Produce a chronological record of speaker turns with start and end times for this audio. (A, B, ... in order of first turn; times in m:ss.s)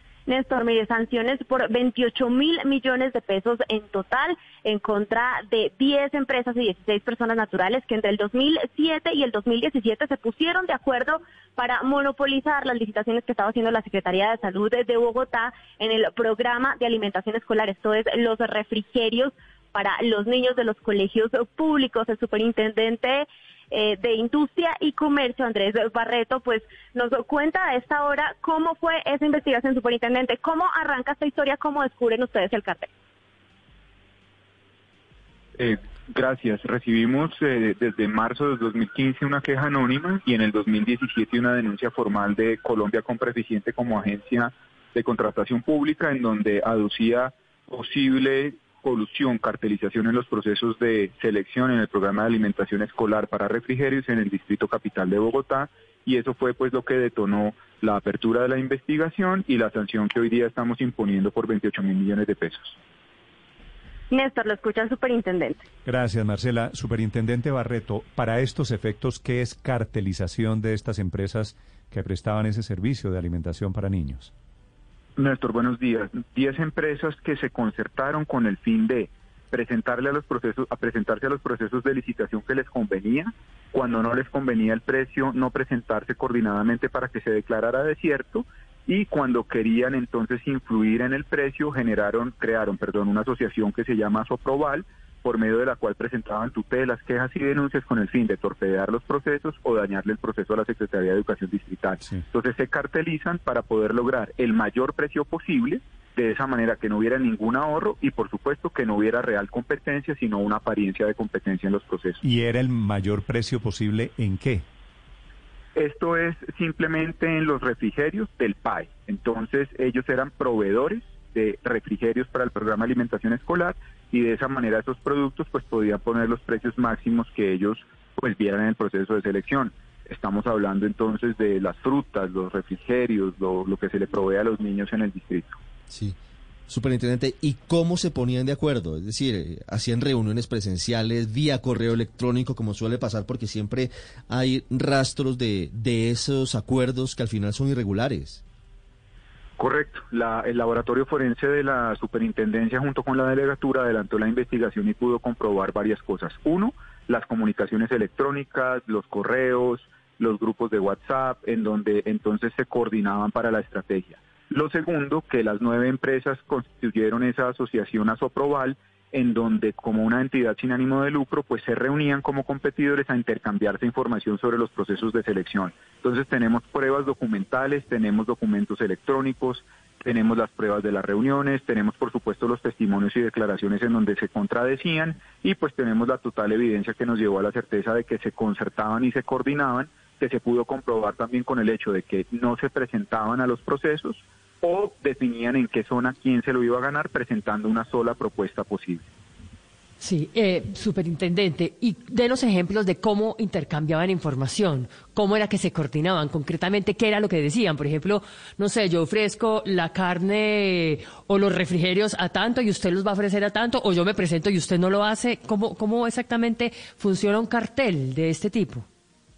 0:00.3-0:32.9 A
0:35.6-1:02.8 B
1:04.1-1:05.6 A
1:05.9-1:14.3 C
1:15.2-1:52.2 B
1:52.2-1:54.7 C
1:55.8-2:15.6 B
2:15.9-2:16.2 D
2:16.7-2:28.4 D
2:29.6-3:19.1 B
3:20.0-3:38.8 E